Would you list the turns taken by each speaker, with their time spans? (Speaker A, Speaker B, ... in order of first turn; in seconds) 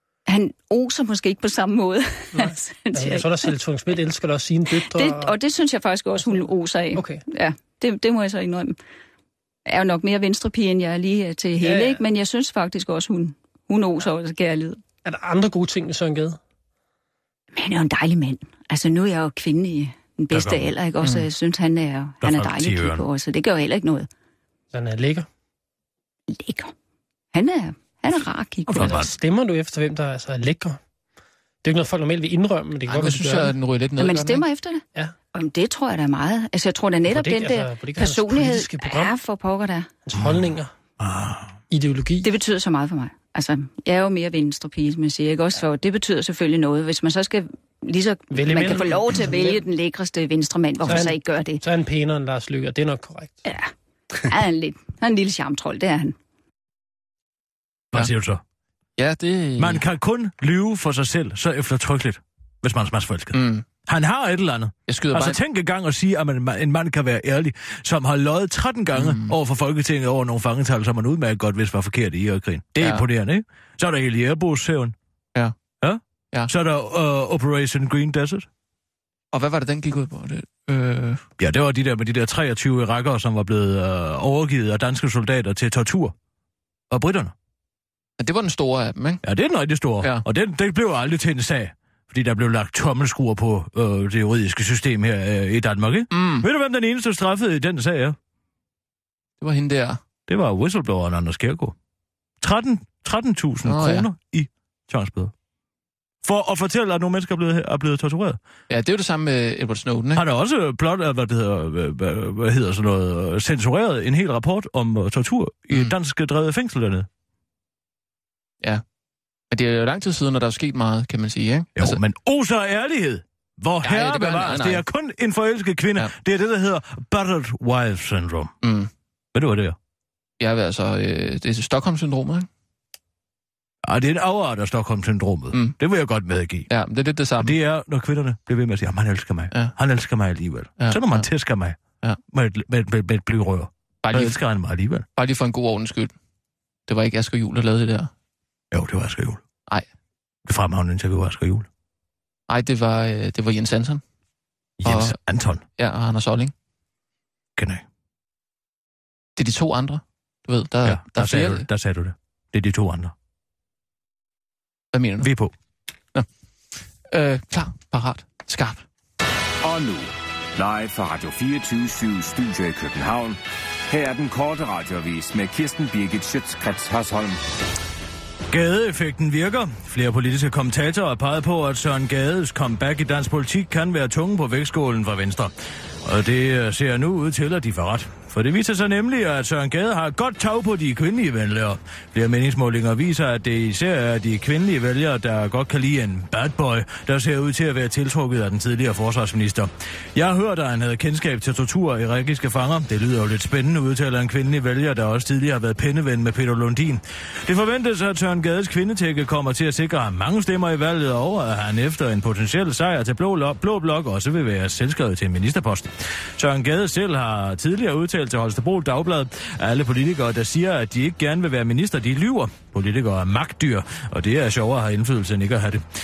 Speaker A: 0.3-3.5, 4.8-8.8, 9.7-14.8, 17.5-24.1, 26.3-26.7, 27.3-29.0, 34.0-39.9, 42.2-51.6, 53.4-53.7, 54.2-56.1
Speaker B: 2.3-5.3, 6.9-7.2, 11.6-12.0, 15.0-16.4, 24.7-25.3, 28.7-30.8, 31.6-33.5, 37.1-39.1, 40.1-40.7, 41.7-42.3, 48.3-49.6, 50.8-53.4
Speaker C: 20.3-20.7, 22.2-23.0, 28.7-29.1, 41.0-41.5, 57.9-58.4, 59.6-74.9, 75.8-78.5, 81.4-86.1, 86.9-87.3, 89.2-98.2, 100.3-101.8, 102.4-105.3, 106.2-108.4, 110.1-117.1, 121.8-128.5, 129.3-129.8, 133.8-136.7, 137.4-141.8, 142.3-145.1, 148.7-149.4, 150.5-151.7, 154.8-155.6, 157.6-157.8, 160.8-163.1, 165.2-165.5, 178.5-185.5, 186.0-225.8
Speaker D: 32.9-34.4, 59.0-59.8, 63.3-63.6, 64.9-65.4, 68.9-69.4, 79.3-81.2, 88.2-89.2, 96.1-96.5, 99.4-100.0, 103.6-104.0, 108.7-110.2, 119.5-122.0, 123.8-124.8, 128.6-128.9, 130.4-132.5, 136.7-137.6, 140.8-141.3, 144.0-144.4, 145.2-146.1, 146.9-148.1, 152.5-154.0, 154.8-155.2, 155.8-156.5, 159.4-161.7, 164.9-165.3, 167.1-168.8
Speaker E: 169.6-177.4